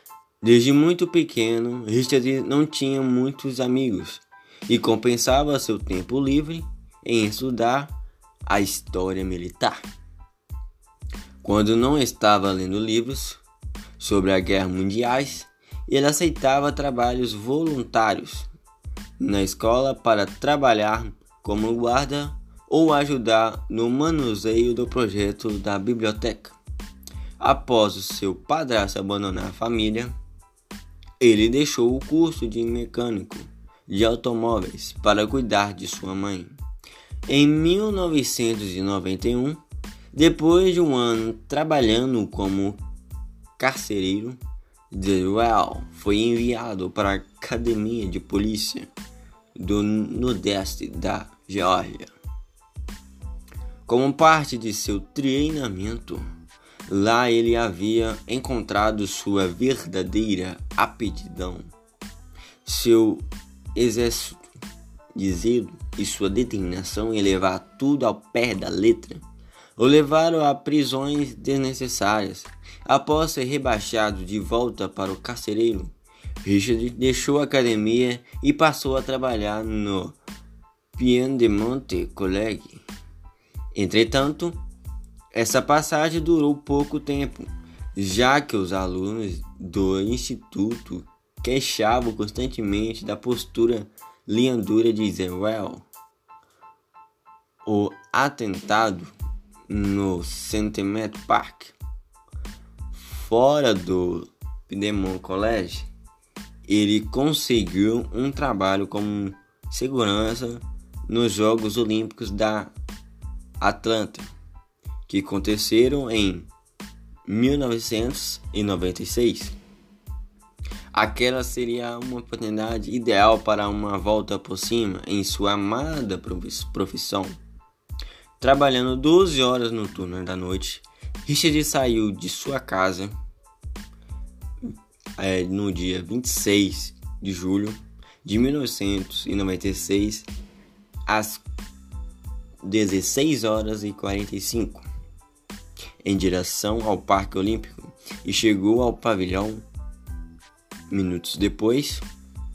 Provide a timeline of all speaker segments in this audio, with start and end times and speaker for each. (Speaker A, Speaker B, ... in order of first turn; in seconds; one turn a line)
Speaker A: 0.4-7.9
Speaker A: 8.5-9.8
Speaker A: 11.4-13.4
Speaker A: 14.0-18.5
Speaker A: 19.2-26.6
Speaker A: 27.4-30.1
Speaker A: 31.2-36.6
Speaker A: 37.3-39.6
Speaker A: 40.1-42.8
Speaker A: 43.6-48.9
Speaker A: 49.6-52.1
Speaker A: 53.9-56.2
Speaker A: 56.9-61.7
Speaker A: 62.6-64.5
Speaker A: 65.2-69.2
Speaker A: 69.8-80.2
Speaker A: 81.0-82.8
Speaker A: 83.7-84.6
Speaker A: 85.3-95.8
Speaker A: 97.7-99.1
Speaker A: 99.7-101.7
Speaker A: 102.9-105.9
Speaker A: 106.7-112.7
Speaker A: 113.6-114.3
Speaker A: 115.1-116.5
Speaker A: 117.3-119.5
Speaker A: 120.9-127.4
Speaker A: 128.4-133.1
Speaker A: 135.2-140.3
Speaker A: 141.1-141.4
Speaker A: 142.6-144.8
Speaker A: 146.0-149.7
Speaker A: 150.9-152.0